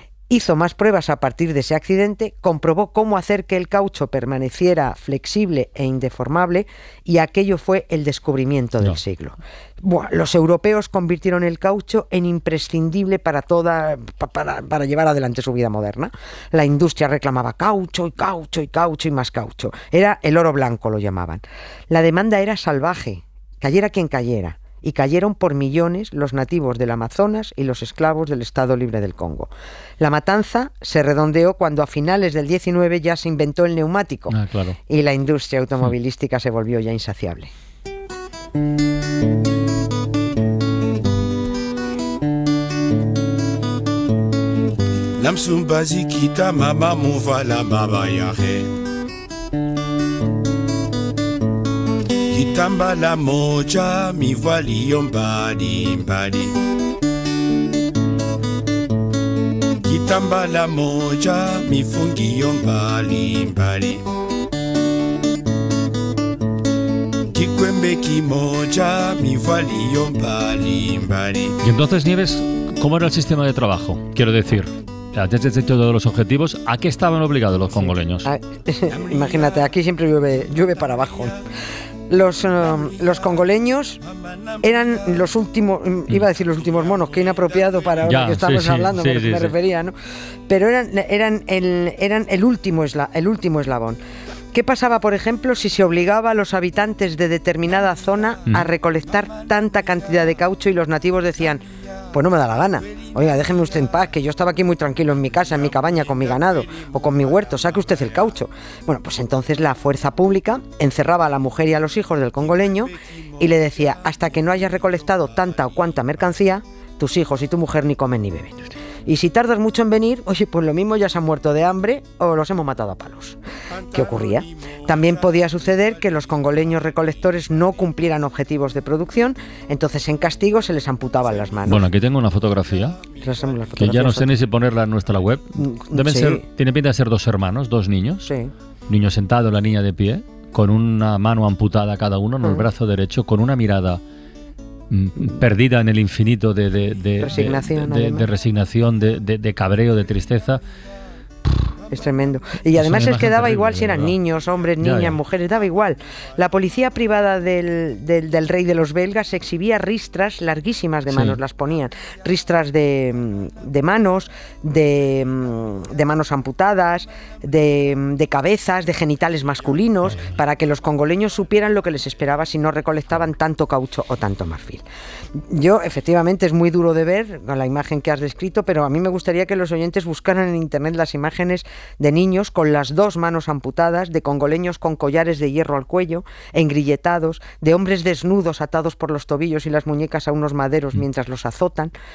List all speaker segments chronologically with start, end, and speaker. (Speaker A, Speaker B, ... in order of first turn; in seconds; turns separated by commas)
Speaker A: 0.3-37.5, Speaker B: 34.3-34.8, Speaker C: 45.2-48.7, Speaker C: 52.3-56.6, Speaker C: 59.8-64.0, Speaker C: 67.3-71.6, Speaker B: 71.6-78.3, Speaker A: 77.7-81.4, Speaker A: 82.1-84.0, Speaker A: 84.6-89.9, Speaker B: 88.0-89.5, Speaker A: 90.5-94.0, Speaker A: 94.5-131.9, Speaker B: 131.7-133.0, Speaker A: 133.1-134.4, Speaker B: 133.8-138.3, Speaker A: 135.6-136.4, Speaker A: 138.2-138.5, Speaker B: 138.9-144.0, Speaker A: 142.4-142.7, Speaker B: 144.9-150.6, Speaker A: 147.2-148.3, Speaker A: 151.9-174.8, Speaker B: 152.7-154.2, Speaker B: 154.8-155.2, Speaker B: 161.1-161.4, Speaker A: 175.5-191.9